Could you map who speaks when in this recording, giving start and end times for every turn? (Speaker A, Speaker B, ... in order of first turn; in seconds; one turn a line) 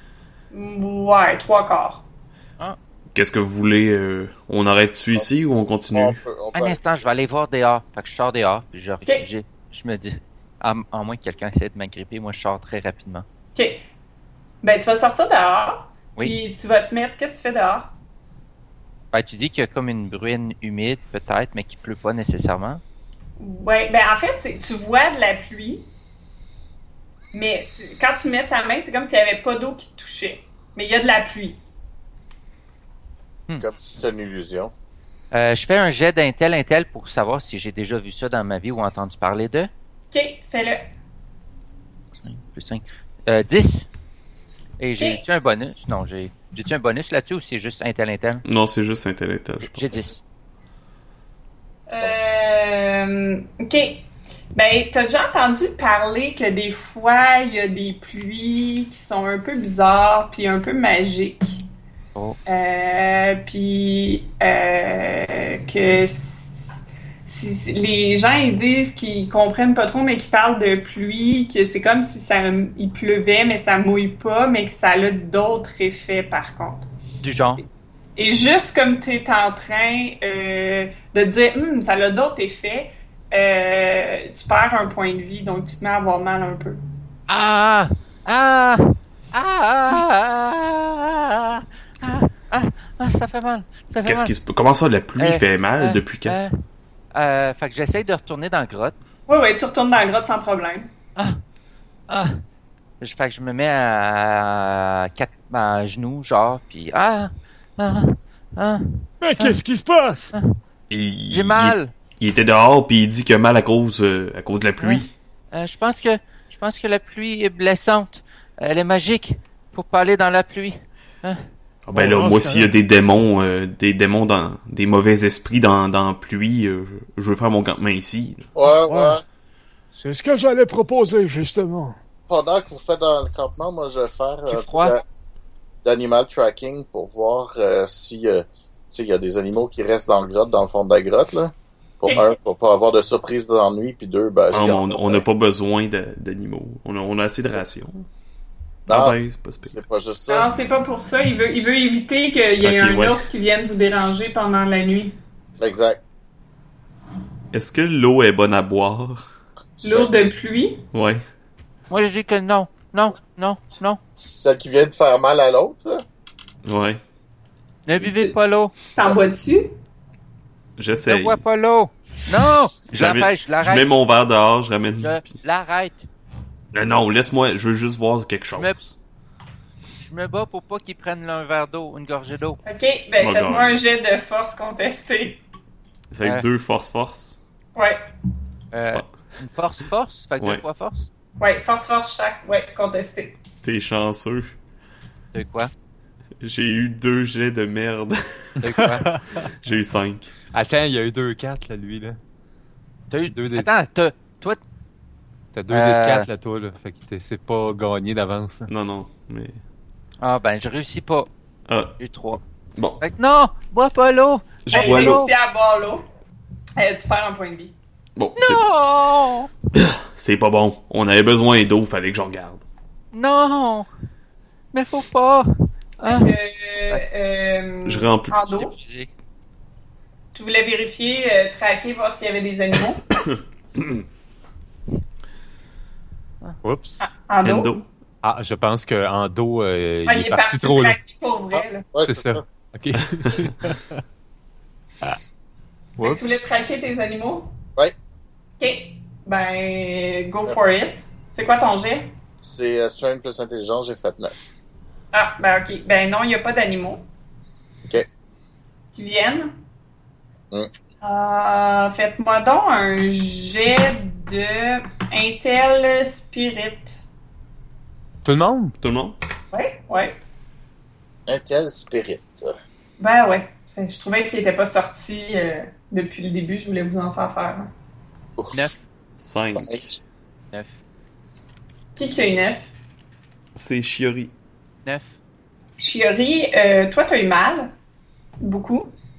Speaker A: 0.5-2.0
Speaker B: 3.1-6.2
Speaker C: 5.9-6.8
Speaker D: 6.5-13.2
Speaker A: 13.5-13.8
Speaker A: 14.6-17.9
Speaker D: 19.1-22.8
Speaker A: 23.4-25.9
Speaker A: 27.3-31.6
Speaker C: 33.6-34.7
Speaker D: 35.3-39.7
Speaker A: 40.1-40.8
Speaker D: 42.2-43.9
Speaker D: 44.8-48.4
Speaker B: 48.5-50.0
Speaker D: 49.7-50.2
Speaker A: 51.9-61.6
Speaker A: 62.5-76.9
Speaker D: 77.2-77.6
Speaker A: 78.2-86.8
Speaker D: 87.3-94.3
Speaker B: 94.0-96.4
Speaker D: 95.2-96.5
Speaker D: 97.1-99.0
Speaker A: 99.3-100.9
Speaker D: 101.2-101.4
Speaker D: 102.1-102.4
Speaker D: 103.0-109.6
Speaker E: 109.2-110.3
Speaker B: 110.9-115.1
Speaker D: 111.3-111.9
Speaker D: 114.8-121.4
Speaker B: 121.8-128.5
Speaker E: 121.9-122.7
Speaker C: 128.5-129.2
Speaker E: 128.8-129.2
Speaker E: 129.9-131.9
Speaker C: 132.3-135.0
Speaker D: 134.5-134.9
Speaker C: 135.8-145.2
Speaker B: 144.5-148.1
Speaker C: 148.9-150.5
Speaker B: 148.9-149.8
Speaker A: 150.3-155.1
Speaker B: 152.6-153.3
Speaker C: 155.6-156.0
Speaker B: 157.5-159.2
Speaker C: 159.8-160.1
Speaker A: 159.8-160.8
Speaker B: 160.9-161.2
Speaker D: 161.9-164.0
Speaker C: 164.2-166.0
Speaker B: 166.6-167.0
Speaker D: 167.8-168.7
Speaker A: 168.0-168.3
Speaker A: 168.9-169.7
Speaker B: 170.8-171.4
Speaker D: 171.1-173.9
Speaker B: 172.9-175.3
Speaker D: 175.0-176.1
Speaker B: 176.7-178.9
Speaker D: 180.0-182.6
Speaker A: 182.6-185.4
Speaker B: 183.2-183.8
Speaker B: 186.1-187.4
Speaker A: 187.8-188.0
Speaker D: 188.7-191.1
Speaker A: 191.4-193.3
Speaker B: 193.6-194.5
Speaker D: 195.3-195.7
Speaker B: 196.4-198.6
Speaker D: 198.6-199.1
Speaker F: 198.8-199.5
Speaker B: 199.6-200.3
Speaker F: 200.5-202.2
Speaker D: 203.1-204.6
Speaker F: 203.3-203.7
Speaker F: 205.5-208.7
Speaker D: 205.7-206.3
Speaker B: 208.7-209.6
Speaker D: 210.2-211.3
Speaker B: 211.7-211.9
Speaker D: 212.0-212.4
Speaker B: 212.8-213.0
Speaker D: 213.0-215.3
Speaker B: 214.6-215.2
Speaker A: 214.7-216.1
Speaker A: 216.8-217.7
Speaker B: 218.2-218.6
Speaker D: 218.3-219.5
Speaker B: 219.7-222.6
Speaker D: 223.1-223.9
Speaker D: 224.7-226.3
Speaker A: 226.0-228.7
Speaker B: 227.8-228.4
Speaker D: 228.5-229.1
Speaker A: 230.3-233.2
Speaker B: 233.8-234.0
Speaker F: 236.6-237.0
Speaker A: 237.0-237.7
Speaker B: 237.4-237.8
Speaker F: 238.2-241.0
Speaker A: 240.1-241.9
Speaker C: 241.5-242.4
Speaker F: 242.0-244.0
Speaker F: 246.0-246.3
Speaker A: 246.0-247.5
Speaker A: 248.6-252.1
Speaker C: 252.4-254.5
Speaker A: 255.1-257.0
Speaker A: 258.9-259.5
Speaker A: 261.0-267.0
Speaker F: 268.2-268.8
Speaker B: 268.8-269.2
Speaker A: 269.5-270.2
Speaker C: 271.3-272.6
Speaker A: 273.0-277.7
Speaker C: 278.4-278.7
Speaker B: 279.2-279.9
Speaker C: 279.4-280.0
Speaker A: 281.9-282.7
Speaker B: 283.6-284.3
Speaker A: 285.8-287.7
Speaker A: 288.4-288.9